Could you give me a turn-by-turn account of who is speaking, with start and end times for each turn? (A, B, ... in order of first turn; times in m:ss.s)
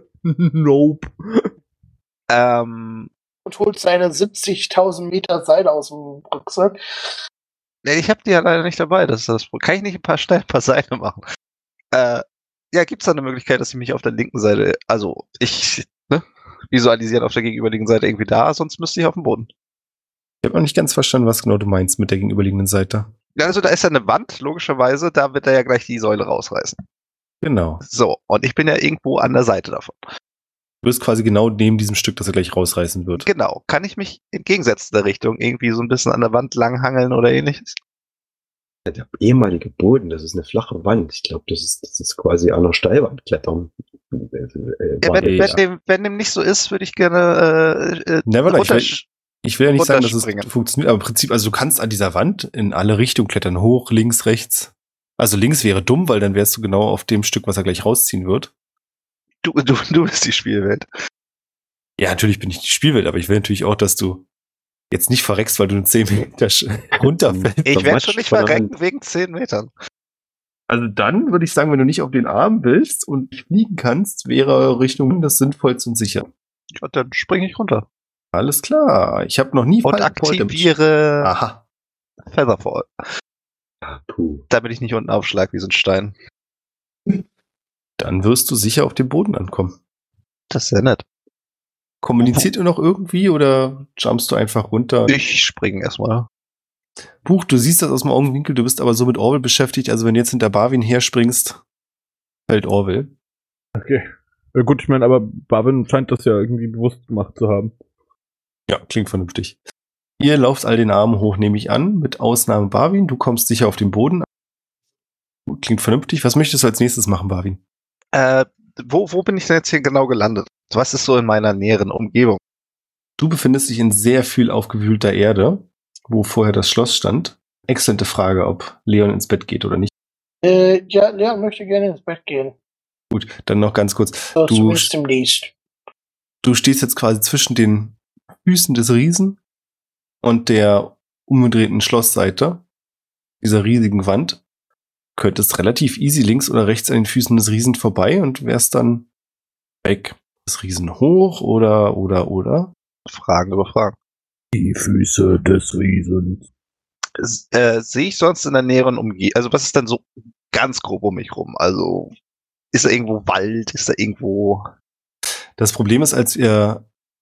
0:00.2-0:01.5 A
0:02.3-0:03.1 B
0:03.4-0:06.8 C
0:07.8-0:11.2 B
0:11.9-0:19.5 B
0:20.4-0:23.1 D
0:23.4-0:26.8 B
0:27.4-0:27.8 D
0:27.8-0:30.0 B
0:30.8-0:33.2 D
0:33.2-0:37.8 B
0:38.9-0:45.6 E
0:45.0-0:49.0 B
0:45.2-0:45.6 D
0:48.2-0:58.5 D
0:49.8-0:50.5 B
0:59.4-1:00.9 B
1:02.0-1:04.2 D
1:04.9-1:07.7 D
1:07.0-1:08.7 E
1:07.6-1:09.7 B
1:10.7-1:16.3 D
1:16.8-1:17.8 B
1:18.3-1:20.7 D
1:19.8-1:21.3 B
1:21.2-1:21.6 D
1:22.3-1:22.9 B
1:23.8-1:24.4 E
1:24.5-1:26.1 B
1:28.0-1:29.8 D
1:30.5-1:31.0 B
1:32.0-1:35.2 D
1:32.2-1:32.5 B
1:35.1-1:36.3 B
1:37.2-1:41.6 D
1:42.5-1:43.1 D
1:43.8-1:47.7 A
1:48.7-1:49.6 D
1:50.2-1:54.2 D
1:55.5-1:57.6 D
1:58.1-2:02.4 B
2:03.2-2:09.9 D
2:10.4-2:12.5 C
2:13.1-2:14.9 D
2:14.4-2:15.5 C
2:16.4-2:19.4 D
2:20.2-2:22.6 D
2:23.4-2:24.4 D
2:25.2-2:29.1 D
2:29.8-2:32.7 D
2:33.1-2:33.9 B
2:34.5-2:36.4 A
2:37.2-2:42.1 B
2:42.7-2:44.7 B
2:45.6-2:46.8 D